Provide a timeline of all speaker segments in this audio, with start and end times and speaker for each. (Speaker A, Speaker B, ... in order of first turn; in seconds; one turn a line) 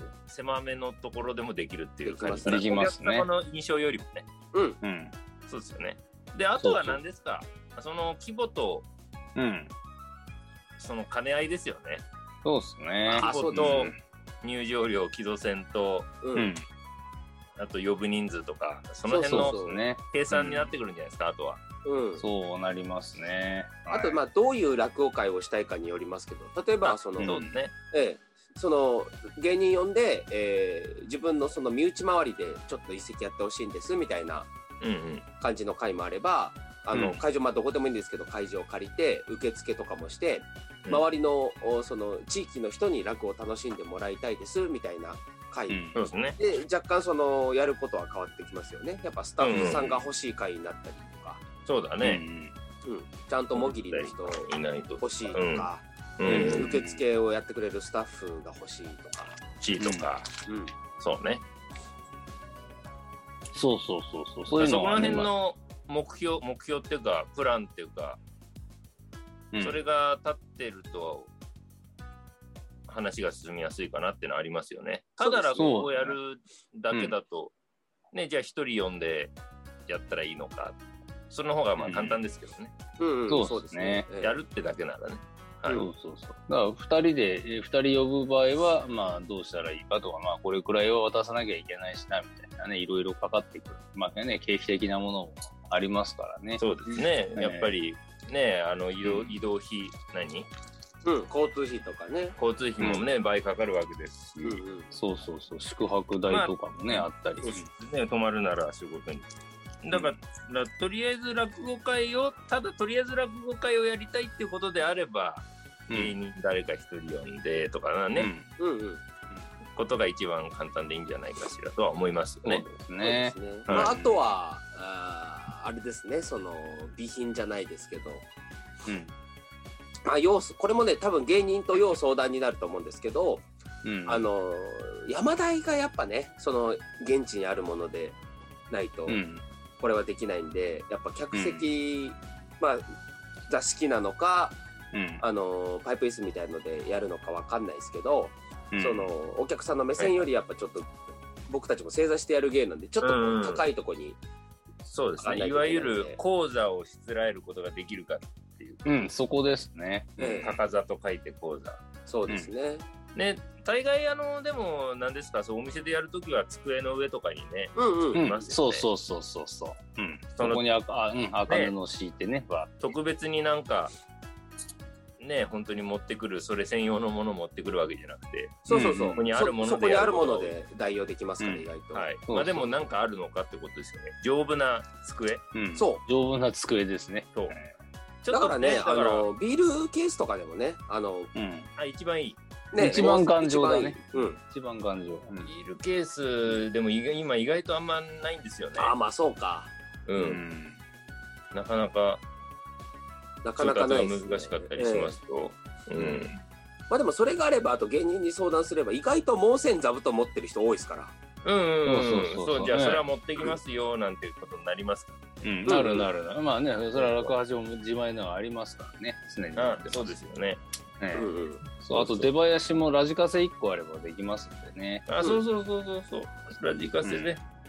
Speaker A: 0.2-4.3
Speaker B: 2.0-2.6
Speaker C: 2.5-3.3
Speaker B: 4.5-4.8
Speaker C: 4.8-5.1
Speaker A: 5.5-8.9
Speaker C: 6.6-7.0
Speaker C: 9.4-9.7
Speaker A: 10.8-12.1
Speaker C: 12.4-14.0
Speaker A: 13.1-16.1
Speaker B: 13.1-13.8
Speaker B: 16.2-16.5
Speaker C: 16.4-16.6
Speaker A: 17.6-21.6
Speaker B: 19.1-19.8
Speaker C: 19.3-20.7
Speaker B: 21.9-22.2
Speaker C: 22.2-24.2
Speaker B: 23.9-27.3
Speaker A: 26.8-27.7
Speaker C: 27.2-27.6
Speaker B: 27.9-34.5
Speaker A: 34.8-35.2
Speaker B: 35.4-45.9
Speaker A: 45.9-46.4
Speaker B: 46.4-51.5
Speaker A: 49.4-50.1
Speaker A: 51.6-52.2
Speaker C: 52.0-52.5
Speaker B: 52.9-54.5
Speaker A: 53.5-56.8
Speaker B: 55.0-59.4
Speaker C: 56.2-57.0
Speaker A: 59.6-60.3
Speaker C: 59.8-60.1
Speaker B: 60.5-60.8
Speaker A: 61.0-61.4
Speaker C: 63.5-65.3
Speaker A: 64.5-68.2
Speaker A: 69.6-71.3
Speaker A: 72.9-77.5
Speaker B: 75.2-75.8
Speaker C: 75.6-76.2
Speaker C: 76.9-77.2
Speaker A: 78.1-79.4
Speaker A: 79.9-80.8
Speaker A: 81.3-82.7
Speaker C: 81.8-82.2
Speaker B: 83.0-84.4
Speaker C: 83.3-84.1
Speaker A: 84.2-85.8
Speaker C: 85.8-96.6
Speaker A: 96.6-100.5
Speaker C: 97.4-97.7
Speaker C: 99.0-99.4
Speaker B: 101.0-102.4
Speaker A: 102.4-104.6
Speaker C: 102.8-103.0
Speaker B: 104.4-104.9
Speaker C: 104.9-107.7
Speaker A: 106.3-109.3
Speaker A: 109.8-118.3
Speaker C: 115.9-116.2
Speaker C: 118.2-118.5
Speaker B: 118.6-119.0
Speaker A: 119.7-122.7
Speaker B: 122.5-128.2
Speaker C: 122.7-123.3
Speaker A: 123.7-124.2
Speaker B: 130.1-133.5
Speaker C: 133.8-134.2
Speaker B: 134.1-138.2
Speaker B: 138.7-139.2
Speaker C: 139.1-139.4
Speaker B: 139.8-142.9
Speaker C: 141.3-141.7
Speaker B: 143.5-144.6
Speaker C: 144.9-145.2
Speaker B: 145.2-150.9
Speaker C: 148.7-149.1
Speaker A: 150.0-150.2
Speaker B: 151.5-154.2
Speaker A: 153.0-153.7
Speaker A: 154.8-159.1
Speaker B: 155.2-156.2
Speaker C: 158.9-160.2
Speaker B: 160.2-160.6
Speaker A: 160.2-161.8
Speaker B: 162.1-162.9
Speaker A: 163.2-168.9
Speaker B: 167.8-168.2
Speaker C: 168.2-172.8
Speaker A: 170.4-170.7
Speaker A: 171.5-171.7
Speaker A: 172.8-173.9
Speaker A: 175.2-180.6
Speaker B: 178.7-182.1
Speaker C: 178.7-179.3
Speaker A: 181.9-185.4
Speaker C: 182.3-182.9
Speaker C: 185.5-187.7
Speaker B: 185.8-186.0
Speaker A: 188.2-189.3
Speaker B: 188.3-191.3
Speaker C: 191.4-191.7
Speaker A: 191.8-193.2
Speaker B: 192.7-194.4
Speaker C: 192.8-195.5
Speaker A: 195.4-198.9
Speaker B: 198.8-199.7
Speaker A: 200.1-200.4
Speaker C: 200.2-200.8
Speaker A: 201.5-202.2
Speaker B: 203.4-205.2
Speaker A: 203.6-206.4
Speaker B: 206.9-211.1
Speaker A: 211.4-215.7
Speaker C: 211.8-213.0
Speaker C: 215.4-220.2
Speaker B: 215.7-216.1
Speaker A: 216.9-217.4
Speaker A: 219.6-220.6
Speaker C: 221.0-225.1
Speaker B: 221.1-222.3
Speaker A: 225.1-227.4
Speaker C: 227.0-227.3